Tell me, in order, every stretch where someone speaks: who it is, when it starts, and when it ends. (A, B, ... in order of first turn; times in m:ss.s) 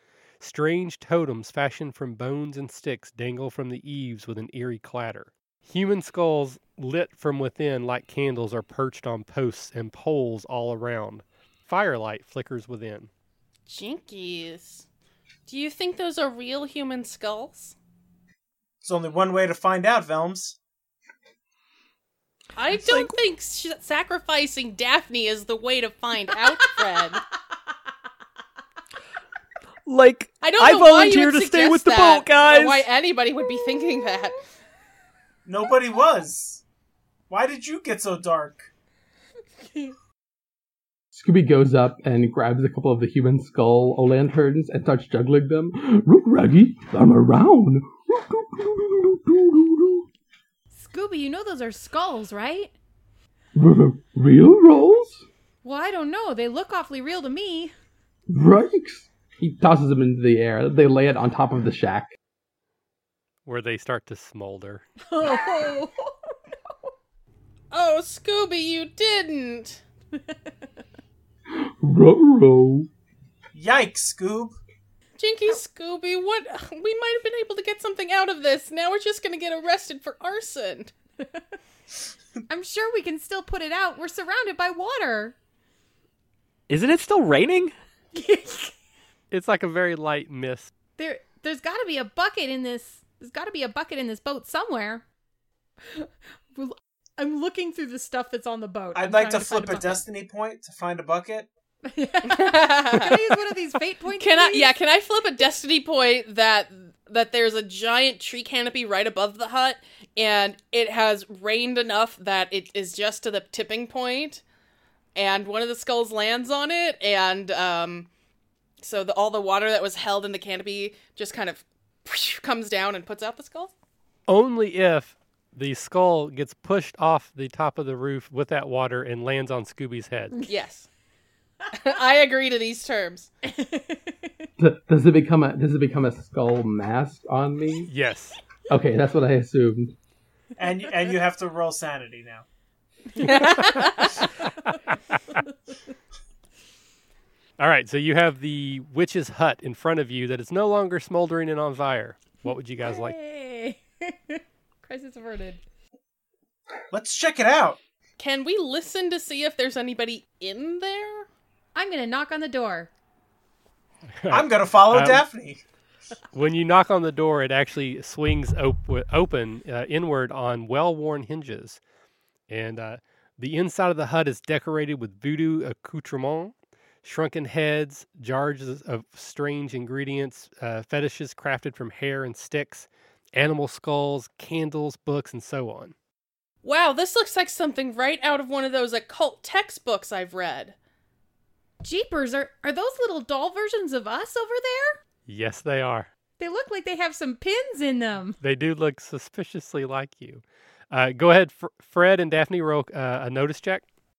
0:00.4-0:13.1 A
0:13.7-0:14.8 B
0:15.5-0:17.8 B
0:18.8-0:20.6 C
0:22.6-0:27.2 B
0:22.7-0:23.1 D
0:29.8-0:32.8 D
0:30.4-0:34.4 B
0:33.5-0:34.3 E
0:35.4-0:36.6 C
0:37.3-0:38.7 C
0:41.1-0:50.1 F
0:50.7-0:52.7 E
0:53.5-0:55.2 F
0:55.6-0:57.7 E
0:58.3-1:02.1 F
1:03.4-1:04.8 A
1:05.1-1:06.7 E
1:07.7-1:09.8 B
1:11.5-1:12.9 F
1:13.5-1:14.6 C
1:15.2-1:20.9 B
1:22.5-1:25.3 E
1:26.7-1:27.7 D
1:28.1-1:28.7 E
1:29.3-1:30.7 A
1:31.0-1:35.0 E
1:35.9-1:40.0 E
1:38.9-1:41.5 C
1:41.8-1:44.7 E
1:42.2-1:43.4 B
1:44.1-1:54.4 B
1:55.2-1:58.1 B
1:58.8-2:03.7 B
2:04.3-2:10.4 A
2:10.5-2:10.9 B
2:11.7-2:13.3 B
2:13.5-2:14.3 E
2:14.6-2:17.9 F
2:17.9-2:18.4 A
2:18.7-2:19.9 F
2:20.6-2:22.4 C
2:23.2-2:24.2 B
2:23.2-2:24.2 E
2:27.6-2:33.1 A
2:32.8-2:35.6 E
2:36.9-2:37.8 C
2:38.2-2:41.3 B
2:41.7-2:42.9 E
2:44.2-2:45.2 A
2:44.3-2:45.6 C
2:46.3-2:51.8 A
2:52.5-3:05.9 A
3:06.6-3:10.8 B
3:11.8-3:15.0 E
3:15.3-3:16.1 A
3:16.4-3:18.4 E
3:18.4-3:23.8 A